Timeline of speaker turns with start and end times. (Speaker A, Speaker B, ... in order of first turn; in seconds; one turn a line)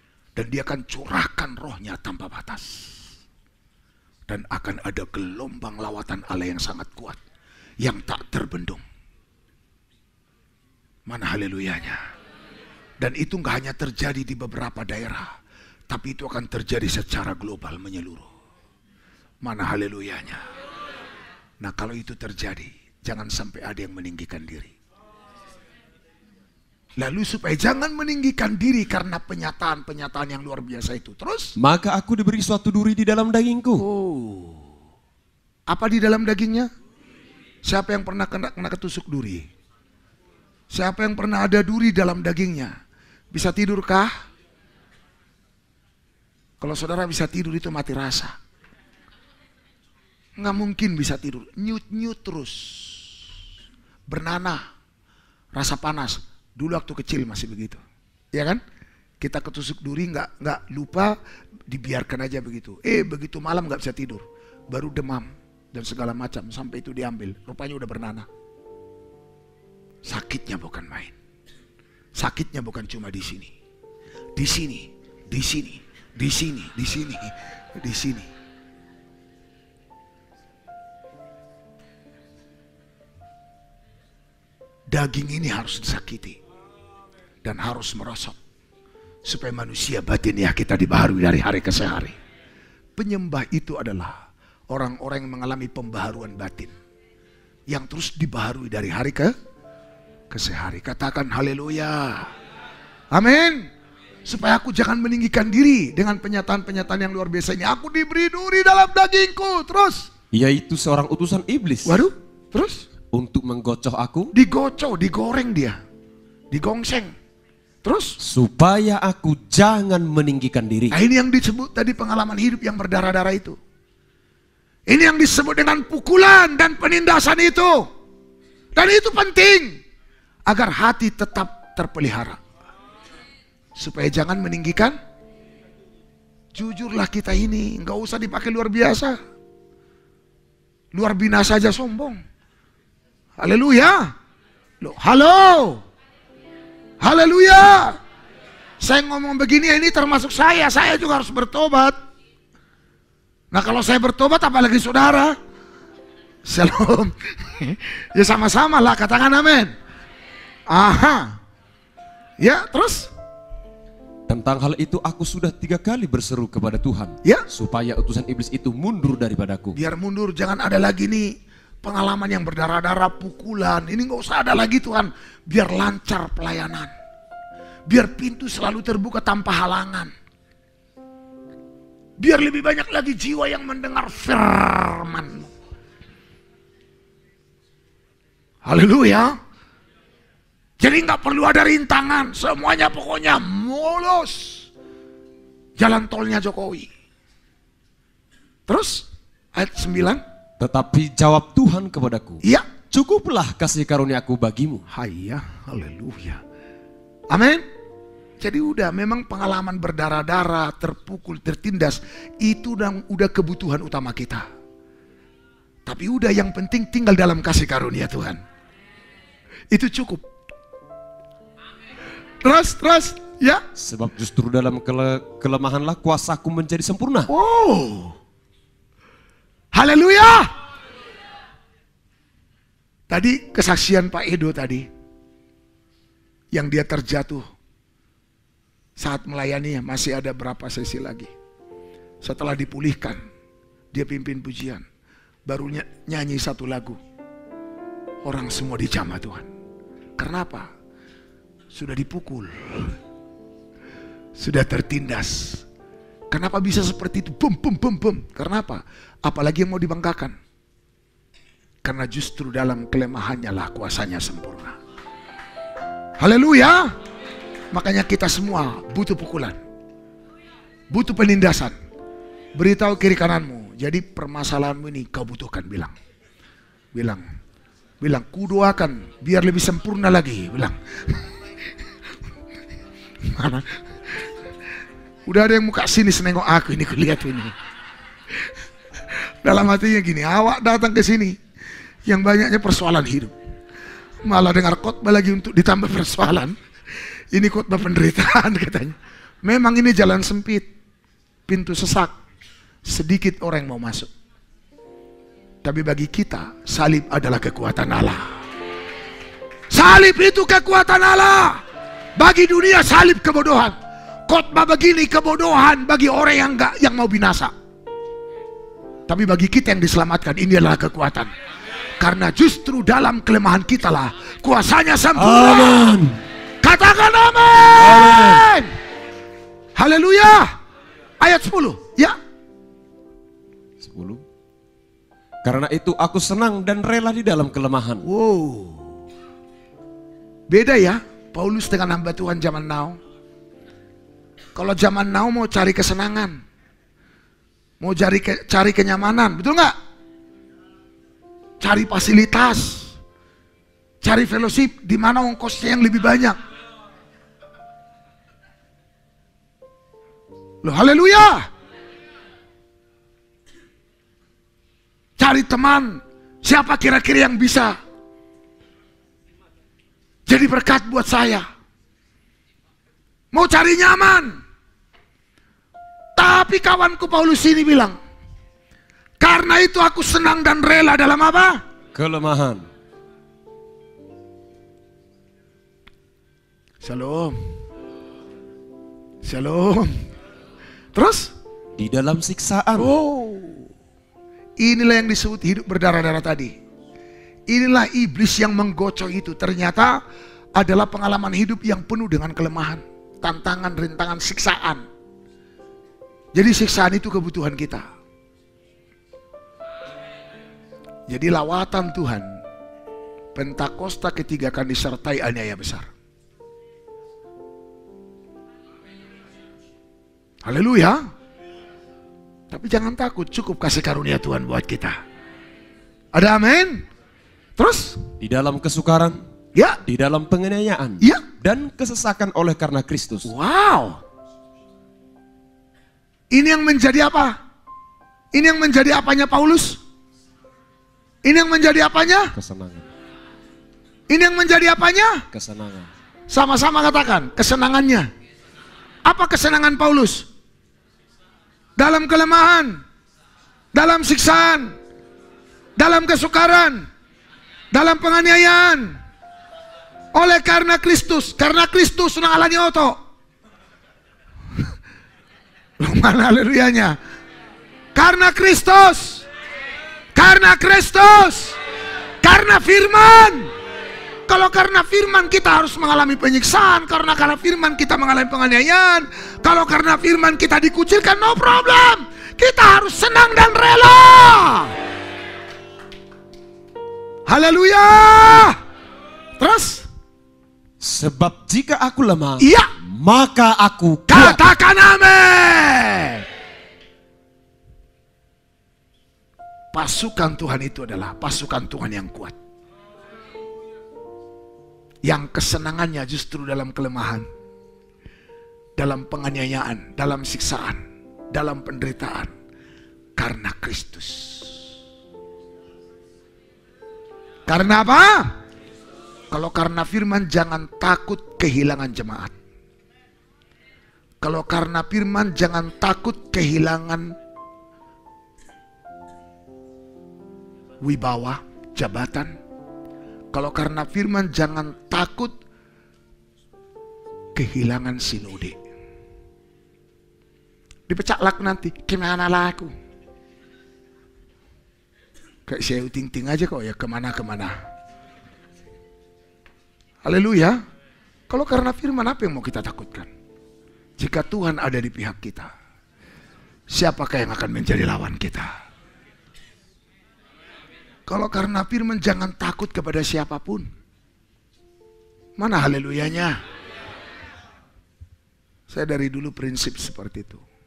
Speaker A: 0.3-2.9
Speaker A: 4.3-7.2
Speaker A: 7.8-8.8
Speaker A: 11.1-12.0
Speaker A: 13.0-15.3
Speaker A: 15.9-18.3
Speaker A: 19.4-20.4
Speaker A: 21.6-24.7
Speaker A: 27.0-31.5
Speaker B: 31.6-33.8
Speaker A: 33.8-34.7
Speaker A: 35.7-36.7
Speaker A: 37.6-39.5
Speaker A: 40.7-42.7
Speaker A: 43.3-44.1
Speaker A: 46.6-48.4
Speaker A: 50.4-53.1
Speaker A: 54.1-54.6
Speaker A: 55.5-57.8
Speaker A: 58.3-58.6
Speaker A: 59.2-61.1
Speaker A: 61.7-68.3
Speaker A: 70.0-71.1
Speaker A: 72.1-73.5
Speaker A: 74.3-78.3
Speaker A: 84.9-86.4
Speaker A: 87.4-88.4
Speaker A: 89.2-92.2
Speaker A: 93.0-94.1
Speaker A: 94.7-96.7
Speaker A: 97.7-99.3
Speaker A: 100.3-102.3
Speaker A: 103.1-103.7
Speaker A: 104.2-110.1
Speaker B: 110.3-112.0
Speaker A: 111.8-112.8
Speaker B: 113.1-114.3
Speaker A: 114.3-115.8
Speaker A: 116.5-117.1
Speaker A: 117.8-118.2
Speaker B: 118.2-121.0
Speaker A: 120.9-123.6
Speaker A: 124.9-127.8
Speaker A: 128.8-129.8
Speaker A: 130.5-132.4
Speaker A: 133.8-135.0
Speaker A: 136.5-139.2
Speaker A: 140.9-142.2
Speaker A: 143.4-144.1
Speaker A: 144.8-145.8
Speaker A: 147.0-147.9
Speaker A: 148.8-151.9
Speaker A: 153.5-155.3
Speaker A: 156.4-159.7
Speaker A: 160.7-161.3
Speaker A: 162.4-163.1
Speaker B: 164.3-169.8
Speaker A: 169.7-171.3
Speaker A: 171.8-176.9
Speaker A: 177.9-180.1
Speaker A: 182.2-185.5
Speaker A: 188.6-189.3
Speaker A: 190.8-194.7
Speaker A: 195.8-196.9
Speaker A: 198.7-200.2
Speaker B: 200.6-204.8
Speaker A: 204.9-206.4
Speaker A: 207.3-207.6
Speaker A: 208.4-214.4
Speaker A: 215.8-218.4
Speaker A: 219.7-220.2
Speaker A: 222.4-223.6
Speaker B: 223.8-227.3
Speaker A: 227.3-228.2
Speaker A: 229.7-230.5
Speaker A: 233.1-234.9
Speaker A: 236.5-237.4
Speaker A: 239.0-241.3
Speaker A: 242.2-243.2
Speaker A: 243.9-244.8
Speaker A: 245.4-247.0
Speaker A: 248.2-249.5
Speaker A: 250.2-250.7
Speaker A: 251.7-252.9
Speaker A: 254.4-255.6
Speaker A: 256.3-260.4
Speaker A: 261.8-264.8
Speaker A: 266.2-266.9
Speaker A: 267.7-269.6
Speaker A: 270.9-271.7
Speaker A: 272.6-275.9
Speaker A: 276.9-277.2
Speaker A: 278.0-281.2
Speaker A: 283.2-283.8
Speaker A: 285.3-287.5
Speaker A: 289.4-291.3
Speaker A: 292.1-293.3
Speaker A: 294.2-296.6
Speaker A: 297.3-300.7
Speaker A: 301.5-302.1
Speaker A: 302.8-304.1
Speaker A: 305.6-308.3
Speaker A: 309.7-311.6
Speaker A: 312.1-313.8
Speaker A: 314.3-317.5
Speaker A: 319.1-321.3
Speaker A: 322.0-325.9
Speaker B: 325.1-326.2
Speaker A: 326.6-328.7
Speaker B: 327.8-328.4
Speaker A: 329.8-330.5
Speaker A: 331.2-332.1
Speaker B: 333.8-334.2
Speaker B: 335.4-338.0
Speaker A: 338.0-338.9
Speaker A: 340.5-343.0
Speaker A: 344.5-346.4
Speaker A: 347.8-349.7
Speaker A: 351.6-352.9
Speaker A: 354.0-356.4
Speaker A: 360.6-361.5
Speaker A: 365.2-367.8
Speaker A: 370.3-371.4
Speaker A: 373.3-374.4
Speaker A: 376.1-378.0
Speaker A: 379.2-381.6
Speaker B: 381.9-382.6
Speaker A: 386.8-387.4
Speaker A: 389.2-389.9
Speaker A: 390.9-391.3
Speaker B: 391.8-392.9
Speaker A: 392.8-393.7
Speaker A: 394.6-396.5
Speaker A: 397.5-400.0
Speaker A: 400.6-404.8
Speaker A: 406.3-407.8
Speaker A: 411.1-412.4
Speaker A: 413.4-415.9
Speaker A: 420.4-421.0
Speaker A: 422.5-425.0
Speaker A: 426.1-426.8
Speaker A: 427.6-428.0
Speaker B: 428.2-429.2
Speaker B: 429.8-433.3
Speaker A: 433.2-434.0
Speaker A: 436.3-437.4
Speaker A: 438.3-439.8
Speaker A: 441.2-442.3
Speaker B: 442.3-442.9
Speaker A: 444.1-445.2
Speaker B: 445.3-445.9
Speaker A: 446.3-448.1
Speaker A: 449.0-450.3
Speaker A: 451.8-452.8
Speaker A: 453.7-454.8
Speaker A: 455.8-456.9
Speaker A: 457.7-459.0
Speaker A: 460.1-463.0
Speaker A: 465.8-467.0
Speaker A: 467.9-469.2
Speaker A: 470.1-471.6
Speaker A: 472.2-473.5
Speaker A: 474.3-484.8
Speaker A: 487.3-488.6
Speaker A: 489.4-489.8
Speaker B: 490.8-494.4
Speaker A: 492.4-492.7
Speaker A: 494.1-496.2
Speaker A: 499.7-502.3
Speaker A: 505.0-507.3
Speaker A: 508.8-510.8
Speaker A: 511.3-512.3
Speaker A: 513.2-514.6
Speaker A: 517.5-518.3
Speaker A: 519.3-522.3
Speaker A: 524.2-527.1
Speaker A: 530.8-532.3
Speaker A: 533.3-535.3
Speaker A: 537.3-538.5
Speaker A: 540.9-542.7
Speaker A: 545.5-547.5
Speaker A: 550.0-550.6
Speaker A: 551.3-553.1
Speaker A: 554.0-555.5
Speaker A: 556.7-558.5
Speaker A: 561.1-563.6
Speaker A: 565.4-566.4
Speaker A: 568.7-570.4